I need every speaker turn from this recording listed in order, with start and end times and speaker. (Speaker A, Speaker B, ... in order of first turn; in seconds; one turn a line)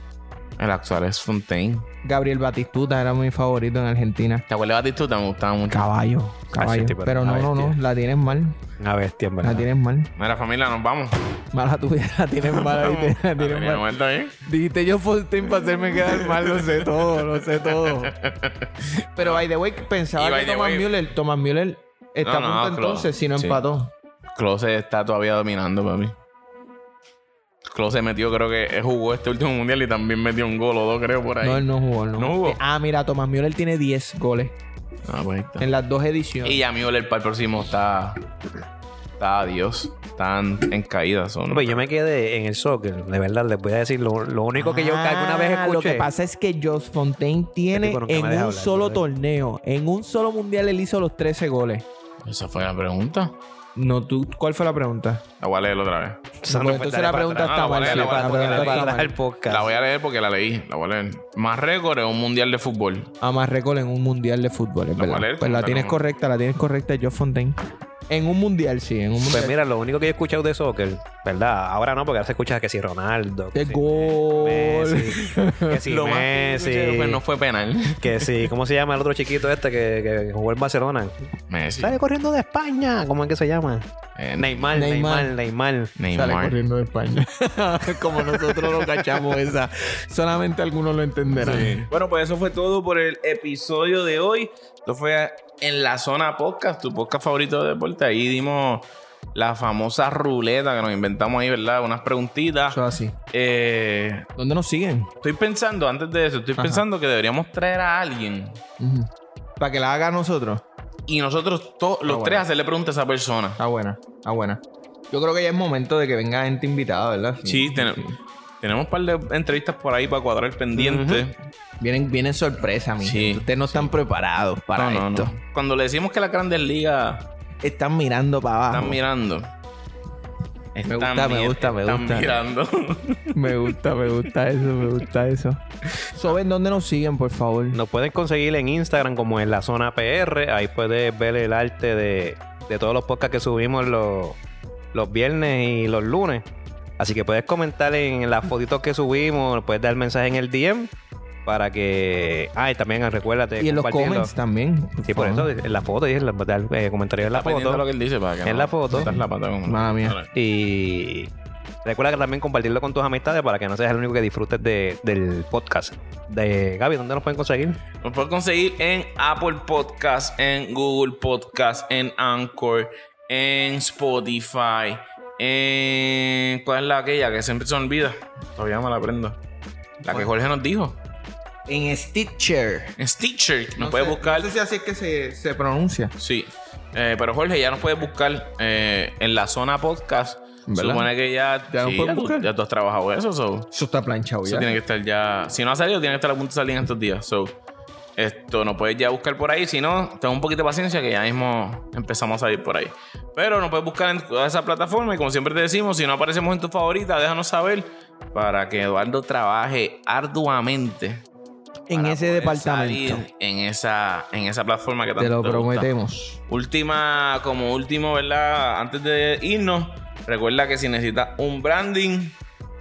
Speaker A: 0.6-1.9
Speaker B: 2.0-4.5
Speaker A: 4.5-5.9
Speaker B: 5.7-8.6
Speaker C: 6.5-7.8
Speaker C: 8.8-9.7
Speaker B: 9.4-10.1
Speaker A: 10.2-11.3
Speaker B: 11.5-13.8
Speaker A: 12.5-14.3
Speaker B: 14.4-18.2
Speaker A: 15.7-19.4
Speaker B: 19.2-23.9
Speaker A: 20.1-20.9
Speaker A: 22.2-23.6
Speaker A: 24.4-26.1
Speaker A: 27.7-32.6
Speaker B: 31.4-34.5
Speaker A: 35.0-35.7
Speaker B: 35.6-36.6
Speaker A: 36.4-38.2
Speaker A: 39.2-41.9
Speaker C: 41.5-46.1
Speaker B: 44.5-51.9
Speaker C: 47.7-49.0
Speaker A: 52.2-53.4
Speaker B: 53.8-55.2
Speaker A: 55.4-56.3
Speaker C: 56.4-59.7
Speaker B: 56.5-59.2
Speaker A: 57.1-63.1
Speaker B: 63.2-67.5
Speaker A: 65.0-66.0
Speaker B: 68.1-69.5
Speaker C: 69.2-77.2
Speaker B: 73.5-75.8
Speaker A: 75.7-78.5
Speaker C: 78.0-85.9
Speaker A: 81.5-82.0
Speaker A: 84.2-84.8
Speaker B: 84.7-85.3
Speaker A: 86.0-86.6
Speaker B: 86.1-91.8
Speaker A: 88.4-89.0
Speaker A: 91.3-102.8
Speaker B: 102.7-103.1
Speaker A: 103.3-104.3
Speaker B: 104.4-105.1
Speaker A: 105.2-108.6
Speaker B: 106.6-106.8
Speaker B: 108.8-110.6
Speaker A: 111.1-113.6
Speaker B: 112.0-112.5
Speaker B: 113.6-118.2
Speaker A: 117.4-118.0
Speaker A: 118.6-121.3
Speaker C: 120.8-121.1
Speaker B: 120.8-121.2
Speaker B: 121.8-125.3
Speaker A: 123.0-123.9
Speaker A: 124.8-127.3
Speaker B: 127.6-129.0
Speaker A: 128.7-129.5
Speaker A: 130.7-133.7
Speaker B: 130.9-132.4
Speaker B: 133.3-135.6
Speaker B: 136.1-137.8
Speaker C: 137.7-144.4
Speaker C: 144.9-146.5
Speaker C: 147.0-150.9
Speaker C: 151.4-154.3
Speaker B: 153.6-155.5
Speaker C: 155.1-157.9
Speaker A: 157.3-160.3
Speaker C: 158.4-159.2
Speaker B: 159.6-160.2
Speaker C: 160.3-161.3
Speaker C: 161.8-167.8
Speaker A: 168.0-179.4
Speaker A: 180.0-181.0
Speaker B: 181.7-182.9
Speaker A: 183.0-184.5
Speaker B: 183.8-186.1
Speaker A: 186.2-193.7
Speaker B: 190.7-191.1
Speaker B: 191.7-192.5
Speaker B: 193.7-194.7
Speaker A: 194.4-197.6
Speaker A: 198.2-211.2
Speaker B: 211.9-213.3
Speaker A: 211.9-215.9
Speaker B: 215.2-216.4
Speaker A: 216.5-222.4